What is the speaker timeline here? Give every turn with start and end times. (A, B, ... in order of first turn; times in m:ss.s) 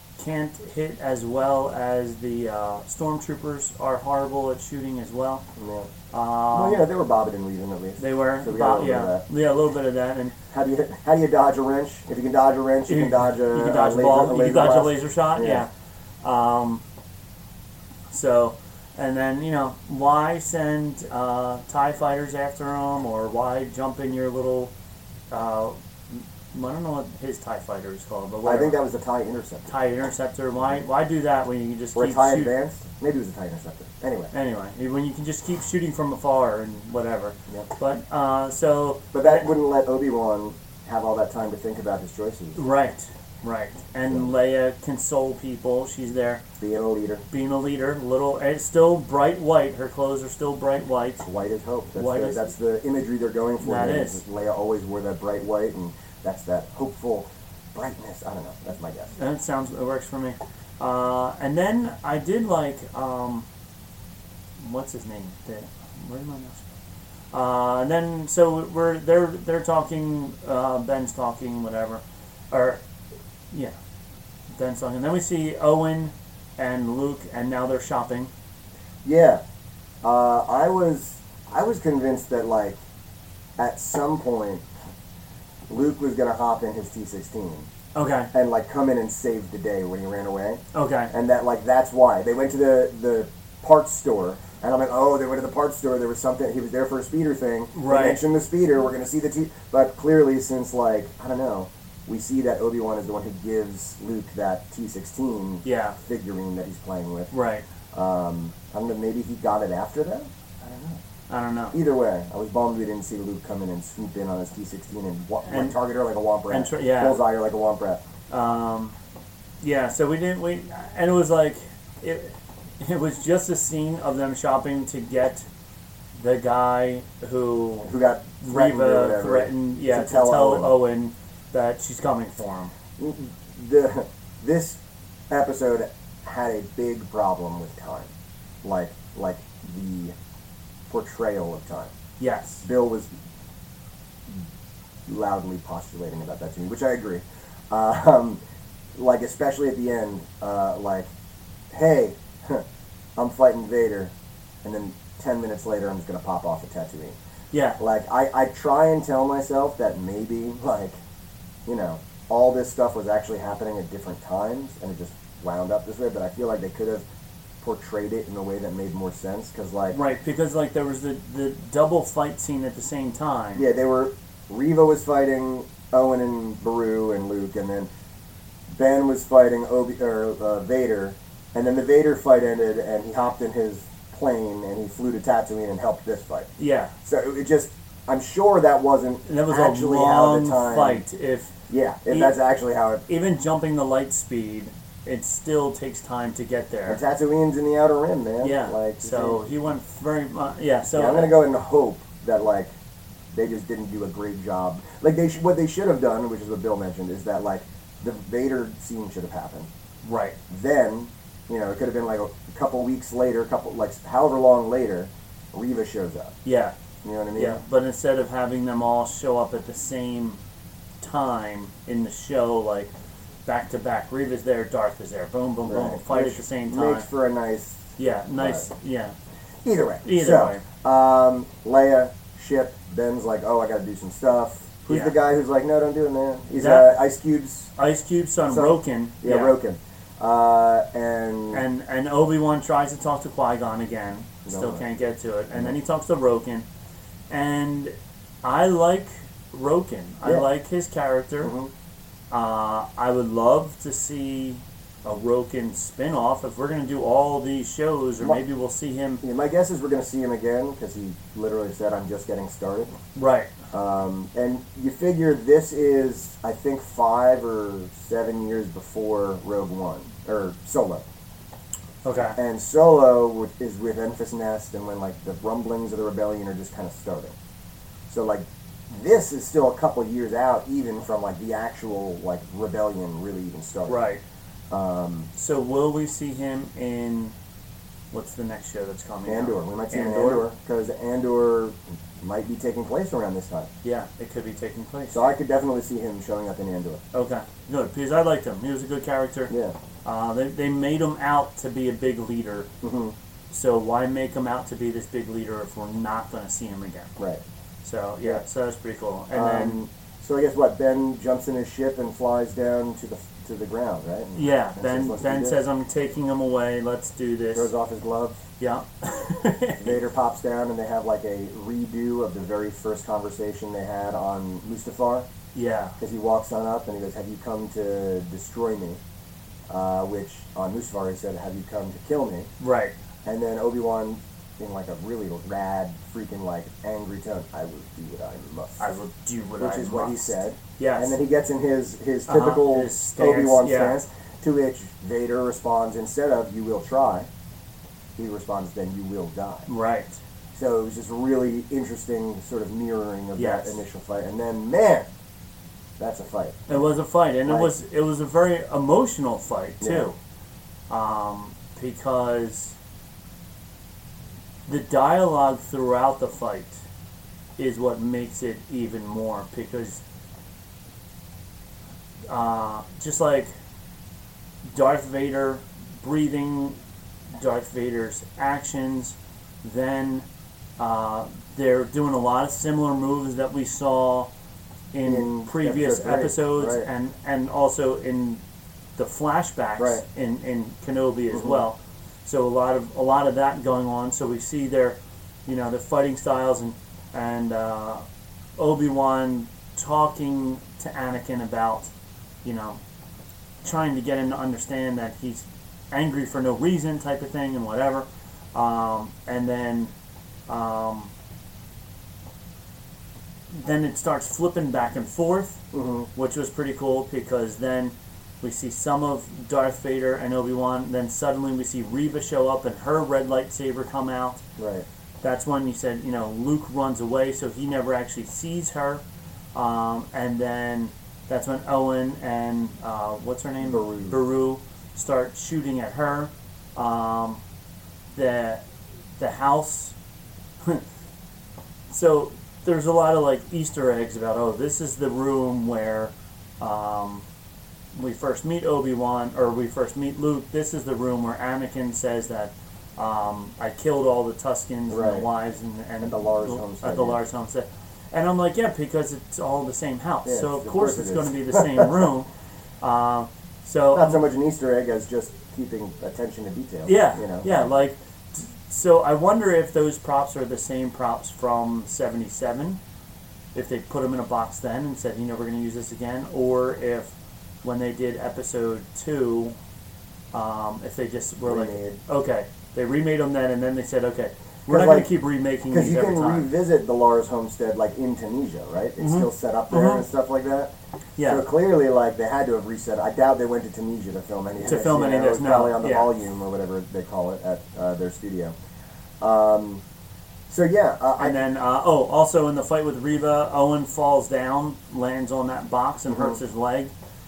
0:00.2-0:05.5 A
0:05.6-0:05.9 B
0:06.1-0:06.9 A
0:06.5-0:09.2 B
0:08.0-0:10.4 A
0:10.5-0:15.7 B
0:12.9-0:15.7 A
0:16.2-0:16.8 A
0:18.1-0:24.7 A
0:25.3-0:28.8 A
0:28.4-0:29.7 B
0:29.7-0:32.5 A
0:32.0-0:34.3 B
0:34.3-0:39.5 A
0:39.1-0:42.6 B
0:42.6-0:46.4 A
0:44.1-0:44.4 B
0:46.6-0:47.3 B
0:47.3-0:51.3 A
0:51.2-0:59.1 B
0:52.0-0:52.5 A
0:53.6-0:54.2 A
0:59.2-1:03.5 A
1:04.6-1:06.7 A
1:07.3-1:12.8 A
1:14.5-1:18.3 A
1:19.0-1:19.4 B
1:20.0-1:22.8 B
1:23.6-1:24.6 B
1:25.7-1:27.7 B
1:28.0-1:28.3 A
1:28.3-1:47.3 B
1:30.7-1:31.1 A
1:37.7-1:38.2 A
1:45.6-1:46.0 A
1:47.3-1:47.6 A
1:47.9-1:51.0 B
1:51.3-1:51.8 A
1:51.7-1:58.0 B
1:55.5-1:55.8 A
1:56.5-1:57.2 A
1:58.3-1:59.0 A
1:59.6-2:05.5 A
2:06.2-2:12.7 A
2:07.8-2:10.8 B
2:13.0-2:18.1 B
2:18.6-2:20.2 B
2:20.9-2:21.9 B
2:22.2-2:22.7 A
2:22.6-2:23.1 B
2:25.1-2:28.4 B
2:29.0-2:31.1 B
2:31.7-2:32.6 B
2:33.2-2:37.2 B
2:37.5-2:37.8 A
2:37.8-2:41.0 B
2:41.7-2:47.0 B
2:47.6-2:50.0 B
2:49.9-2:53.7 A
2:53.6-2:57.9 B
2:58.7-3:06.5 B
3:06.6-3:06.9 A
3:07.0-3:11.0 B
3:09.3-3:11.5 A
3:11.7-3:13.0 B
3:12.1-3:12.4 A
3:13.1-3:17.0 A
3:16.9-3:19.4 B
3:18.4-3:21.4 A
3:20.9-3:22.7 B
3:23.3-3:29.7 B
3:30.0-3:30.4 A
3:30.5-3:36.4 B
3:36.4-3:36.8 A
3:37.0-3:37.6 B
3:37.4-3:40.4 A
3:41.0-3:42.9 A
3:43.5-3:47.1 A
3:45.7-3:48.7 B
3:48.0-3:49.2 A
3:49.6-3:57.7 B
3:50.0-3:50.6 A
3:54.9-3:55.2 A
3:56.6-3:57.0 A
3:57.8-3:59.6 A
3:58.5-4:01.6 B
4:01.5-4:06.7 A
4:04.5-4:04.8 B
4:07.3-4:11.5 A
4:10.2-4:10.5 B
4:11.4-4:11.7 B
4:12.3-4:19.2 A
4:19.2-4:22.9 B
4:23.2-4:23.6 A
4:23.7-4:31.0 B
4:32.0-4:32.4 A
4:32.4-4:37.4 B
4:38.1-4:44.0 B
4:43.9-4:44.2 A
4:44.7-4:45.3 B
4:45.4-4:47.4 A
4:48.1-4:50.5 A
4:49.3-4:53.7 B
4:53.8-4:55.3 A
4:55.1-4:57.0 B
4:57.1-4:59.5 A
4:59.5-4:59.8 B
5:00.0-5:02.7 A
5:02.8-5:03.2 B
5:03.5-5:07.1 A
5:07.8-5:09.8 A
5:09.3-5:15.6 B
5:14.4-5:17.7 A
5:17.5-5:18.4 B
5:18.6-5:20.0 A
5:19.8-5:25.3 B
5:25.5-5:26.0 A
5:26.0-5:29.0 B
5:29.7-5:32.5 B
5:32.6-5:33.0 A
5:33.2-5:39.0 B
5:38.8-5:41.2 A
5:39.6-5:47.3 B
5:42.3-5:44.0 A
5:48.2-5:49.7 B
5:49.7-5:50.2 A
5:50.5-5:55.1 B
5:53.4-5:53.8 A
5:56.0-5:56.8 B
5:56.7-6:00.2 A
5:57.5-5:57.7 B
5:59.8-6:00.1 B
6:00.9-6:02.8 A
6:04.7-6:06.8 A
6:07.6-6:10.0 A
6:12.3-6:13.5 A
6:14.7-6:16.8 A
6:17.3-6:20.3 A
6:20.8-6:24.3 A
6:24.9-6:28.4 A
6:25.1-6:26.9 B
6:29.0-6:38.0 A
6:29.8-6:30.0 B
6:31.3-6:31.6 B
6:38.6-6:41.9 A
6:42.4-6:42.8 A
6:43.6-6:49.9 A
6:50.5-6:51.1 A
6:53.5-7:04.4 A
6:55.7-6:56.1 B
7:04.6-7:04.9 B
7:05.2-7:09.0 A
7:09.5-7:17.4 A
7:13.6-7:14.2 B
7:18.1-7:18.6 A
7:19.2-7:20.0 A
7:21.9-7:27.2 A
7:27.9-7:42.3 A
7:34.9-7:35.3 B
7:36.0-7:37.2 B
7:40.2-7:42.1 B
7:42.8-7:44.2 A
7:43.9-7:47.7 B
7:46.8-7:52.8 A
7:53.5-7:57.1 A
7:57.6-7:59.6 A
8:00.3-8:06.5 A
8:01.5-8:02.0 B
8:04.7-8:05.1 B
8:05.7-8:18.6 B
8:09.0-8:10.0 A
8:11.2-8:11.5 A
8:14.6-8:16.2 A
8:19.2-8:19.8 B
8:20.5-8:21.4 B
8:21.2-8:26.9 A
8:26.1-8:26.4 B